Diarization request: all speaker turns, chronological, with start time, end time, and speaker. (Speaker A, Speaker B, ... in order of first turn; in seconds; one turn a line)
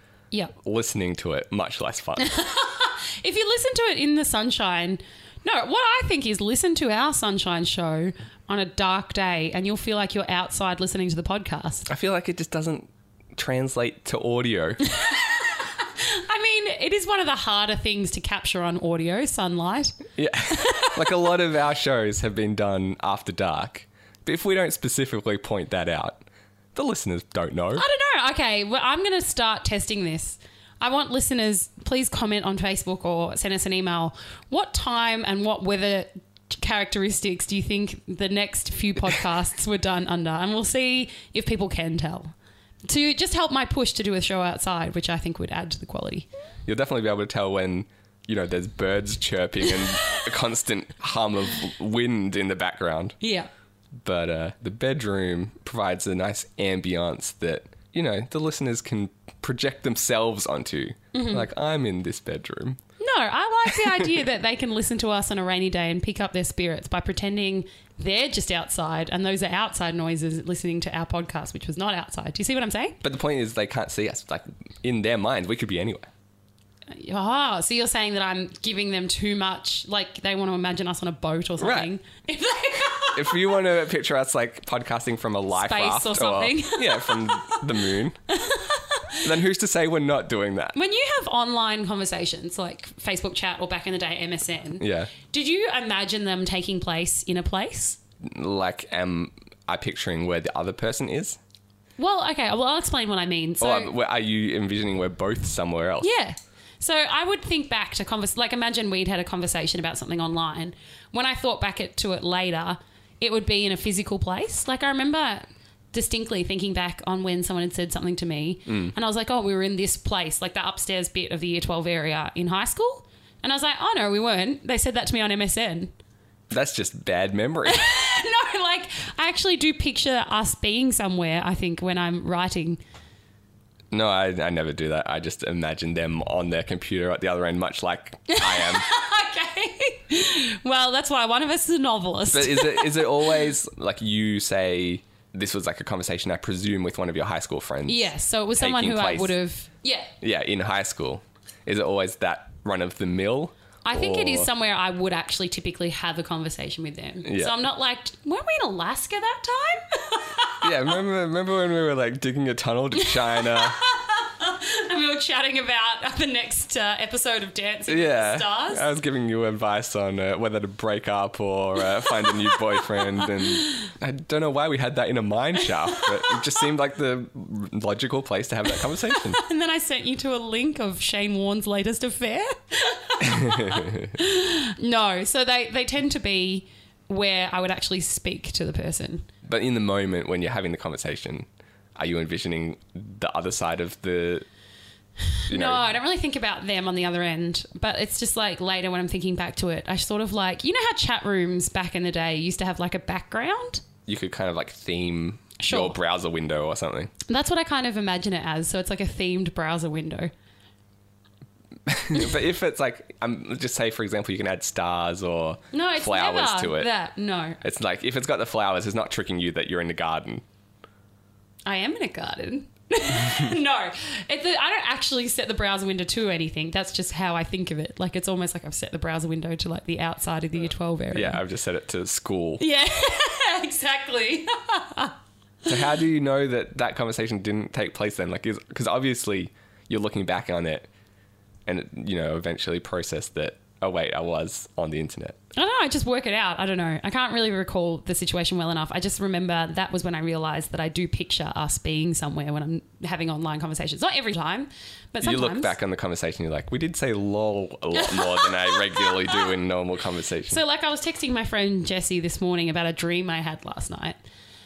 Speaker A: 0.6-2.3
Speaker B: 2.2-11.9
Speaker A: 11.8-14.8
Speaker B: 14.8-20.0
Speaker A: 20.2-27.8
Speaker B: 20.5-21.2
Speaker B: 27.8-42.3
Speaker B: 42.8-46.3
Speaker A: 46.6-53.1
Speaker B: 53.2-53.5
Speaker A: 54.0-62.8
Speaker B: 61.1-61.5
Speaker B: 63.0-73.0
Speaker A: 63.7-64.1
Speaker A: 73.0-76.1
Speaker B: 76.9-83.6
Speaker A: 81.6-81.9
Speaker A: 83.1-88.2
Speaker B: 85.5-87.7
Speaker B: 88.3-89.2
Speaker A: 89.2-90.8
Speaker B: 90.7-98.0
Speaker A: 94.8-95.1
Speaker A: 98.2-101.4
Speaker B: 102.0-103.9
Speaker A: 103.6-106.1
Speaker B: 106.0-125.9
Speaker A: 118.7-118.9
Speaker A: 126.5-127.8
Speaker B: 127.7-132.8
Speaker A: 133.9-138.8
Speaker B: 138.3-143.4
Speaker A: 142.3-149.4
Speaker B: 147.8-150.1
Speaker A: 150.2-154.5
Speaker B: 153.8-160.7
Speaker A: 157.2-157.6
Speaker A: 160.6-163.8
Speaker B: 163.0-168.9
Speaker A: 167.9-179.4
Speaker B: 172.1-173.9
Speaker B: 175.9-176.3
Speaker B: 179.4-189.3
Speaker A: 183.2-184.1
Speaker A: 189.4-194.4
Speaker B: 195.4-203.8
Speaker A: 195.5-195.9
Speaker A: 204.1-207.1
Speaker B: 205.6-206.0
Speaker B: 207.3-210.3
Speaker A: 211.8-216.9
Speaker B: 215.7-217.6
Speaker A: 217.6-220.4
Speaker B: 221.7-231.4
Speaker A: 231.1-232.6
Speaker B: 232.6-235.1
Speaker A: 235.7-240.9
Speaker A: 241.7-245.4
Speaker B: 245.5-255.7
Speaker A: 255.2-260.6
Speaker B: 257.9-259.5
Speaker B: 260.5-264.2